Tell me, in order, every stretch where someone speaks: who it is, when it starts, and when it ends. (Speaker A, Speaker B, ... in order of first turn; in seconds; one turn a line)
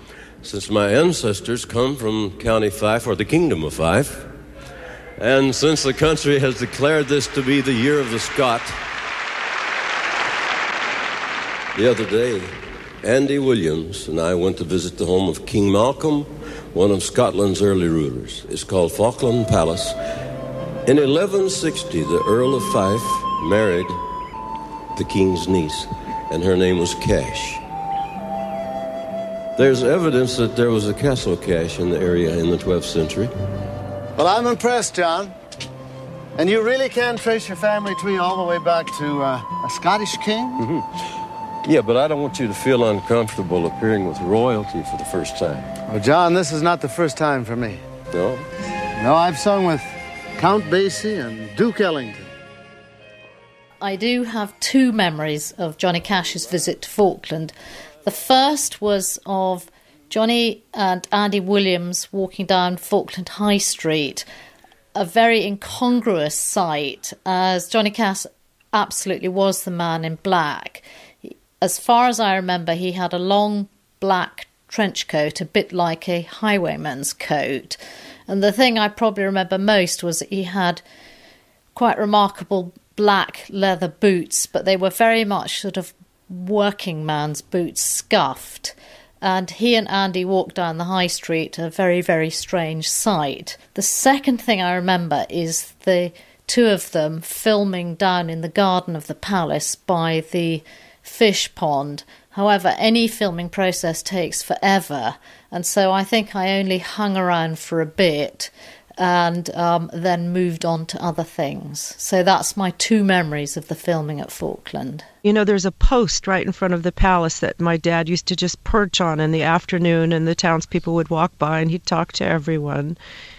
Speaker A: 0.4-4.3
Speaker A: 5.2-8.8
Speaker A: 11.7-20.0
Speaker A: 20.9-24.0
Speaker A: 24.9-27.6
Speaker A: 29.6-33.3
Speaker B: 34.2-35.3
Speaker B: 36.4-40.6
Speaker A: 40.6-40.9
Speaker A: 41.6-45.8
Speaker B: 45.9-47.8
Speaker A: 48.1-48.5
Speaker B: 49.0-52.3
Speaker C: 53.8-57.5
Speaker C: 58.0-64.2
Speaker C: 65.0-80.8
Speaker C: 81.7-115.0
Speaker D: 115.2-123.0